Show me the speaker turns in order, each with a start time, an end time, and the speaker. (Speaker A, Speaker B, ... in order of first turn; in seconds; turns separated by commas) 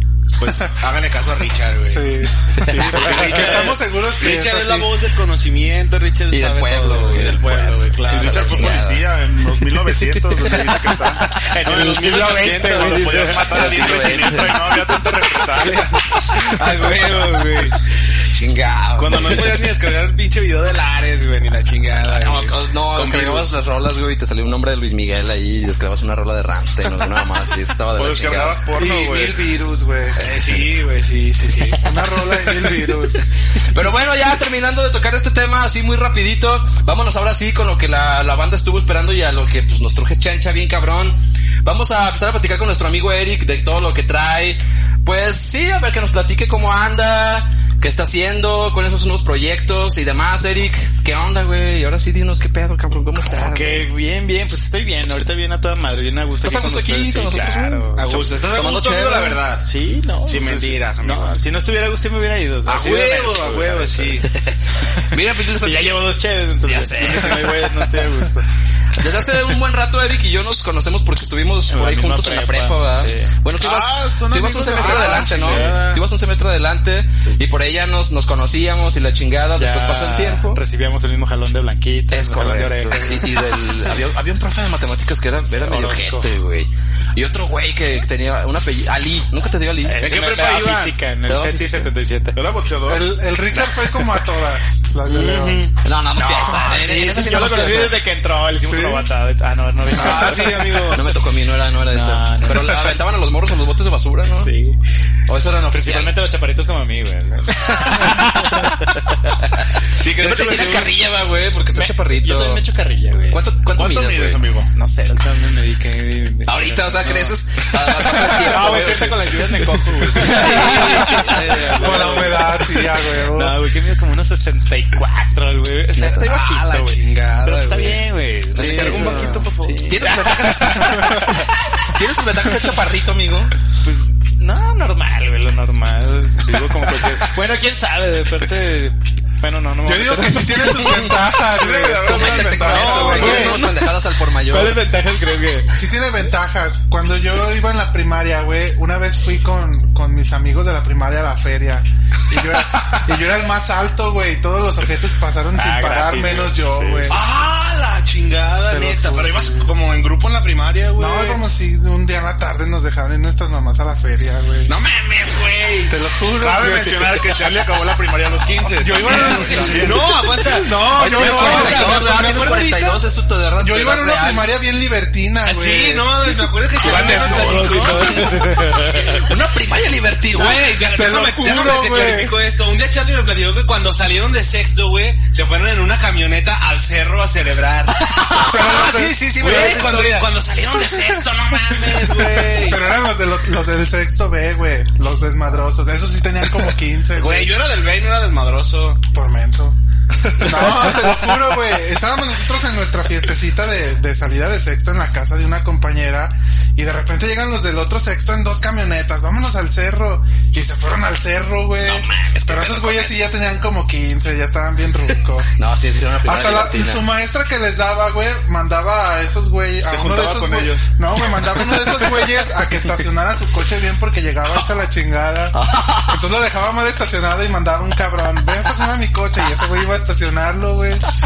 Speaker A: 0.4-8.9, Speaker B: 1.9-5.0, Speaker C: 2.6-3.5, Speaker D: 6.3-9.1, Speaker E: 8.1-16.2, Speaker C: 11.2-13.6, Speaker A: 11.6-14.5, Speaker D: 13.4-14.8, Speaker A: 15.4-17.8, Speaker D: 18.3-19.6, Speaker A: 18.9-23.5, Speaker D: 22.1-28.6, Speaker E: 28.0-29.4, Speaker B: 28.8-30.2, Speaker A: 30.1-31.8, Speaker B: 31.8-33.2, Speaker D: 33.7-53.9, Speaker C: 53.2-58.1, Speaker D: 56.4-59.4, Speaker A: 58.0-59.7, Speaker C: 59.6-64.2, Speaker A: 60.2-61.4, Speaker A: 62.7-64.3, Speaker D: 64.3-66.1, Speaker C: 65.0-68.5, Speaker D: 66.6-67.9, Speaker D: 69.0-80.6, Speaker C: 71.7-73.3, Speaker E: 73.6-75.7, Speaker A: 74.7-76.0, Speaker C: 75.1-75.7, Speaker C: 79.6-83.5, Speaker D: 82.1-90.0, Speaker C: 85.6-86.3, Speaker C: 89.8-92.4, Speaker A: 90.0-91.0, Speaker D: 91.3-91.9, Speaker E: 92.3-93.1, Speaker B: 92.8-95.7, Speaker A: 95.1-95.7, Speaker D: 95.8-98.0, Speaker C: 96.2-101.0, Speaker B: 98.7-99.1, Speaker A: 99.9-101.1, Speaker D: 100.0-104.5, Speaker C: 101.9-103.0, Speaker C: 104.3-104.8, Speaker D: 105.3-106.2, Speaker C: 105.7-108.9, Speaker A: 110.0-110.9, Speaker D: 110.1-112.6, Speaker C: 110.4-110.8, Speaker C: 111.8-113.4, Speaker D: 113.3-114.5, Speaker E: 113.8-114.7, Speaker C: 114.7-117.4, Speaker D: 116.5-121.4, Speaker C: 118.0-131.5, Speaker B: 120.2-120.8, Speaker A: 120.5-122.5, Speaker B: 121.3-123.6, Speaker A: 126.0-129.9, Speaker D: 128.5-133.5, Speaker C: 133.8-141.1, Speaker B: 139.8-143.6, Speaker E: 141.4-143.6, Speaker D: 142.0-144.8, Speaker C: 142.6-145.7, Speaker B: 145.7-157.3, Speaker C: 155.6-157.2, Speaker A: 157.1-161.4, Speaker B: 158.6-159.7, Speaker B: 160.9-164.7, Speaker A: 164.7-166.0, Speaker B: 165.9-167.1, Speaker E: 166.3-169.9, Speaker B: 168.8-169.9, Speaker D: 169.0-169.9, Speaker C: 169.0-172.1, Speaker A: 169.2-173.0, Speaker D: 170.9-174.5, Speaker E: 171.0-172.1, Speaker B: 173.6-176.5, Speaker A: 175.4-178.3, Speaker C: 176.8-179.3, Speaker D: 176.9-180.6, Speaker A: 180.3-192.8, Speaker B: 180.8-182.3, Speaker B: 188.3-190.1, Speaker C: 188.4-190.3, Speaker B: 192.5-197.5, Speaker A: 197.1-199.0, Speaker B: 199.1-199.8, Speaker D: 200.4-201.1, Speaker B: 200.4-215.5, Speaker D: 211.8-213.3, Speaker D: 215.6-217.0, Speaker B: 216.2-231.1, Speaker E: 219.8-220.9, Speaker D: 225.5-226.2